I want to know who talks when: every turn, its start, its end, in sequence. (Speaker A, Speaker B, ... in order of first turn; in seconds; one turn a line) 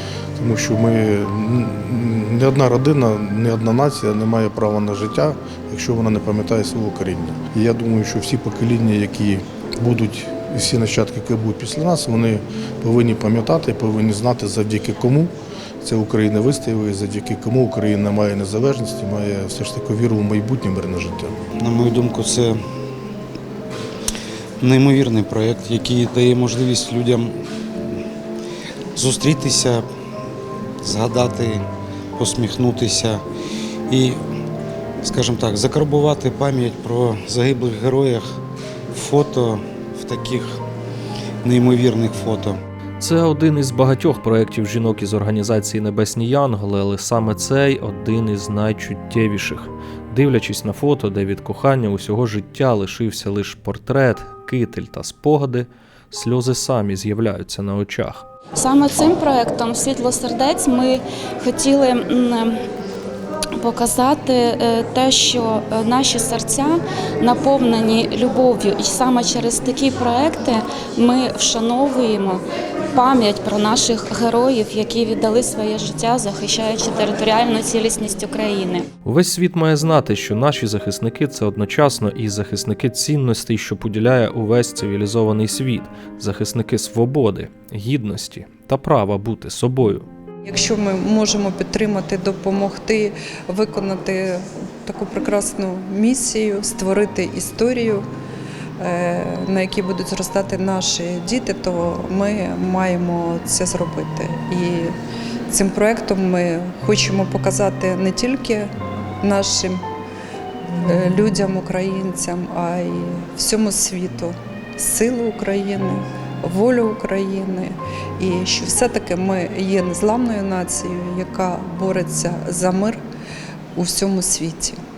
Speaker A: 0.4-21.4
Speaker B: 21.6-22.6
Speaker B: 24.6-27.3
Speaker B: 28.9-29.8
Speaker B: 30.8-31.6
Speaker B: 32.2-33.2
Speaker B: 33.9-34.2
Speaker B: 35.0-38.2
Speaker B: 38.9-40.6
Speaker B: 41.4-42.6
Speaker C: 43.0-58.2
Speaker D: 58.5-62.6
Speaker D: 63.6-78.9
Speaker C: 79.0-90.0
Speaker E: 90.4-98.0
Speaker E: 98.8-104.9
Speaker E: 105.5-108.7
Speaker E: 109.2-109.8
Speaker E: 110.8-123.0
Speaker E: 123.8-124.8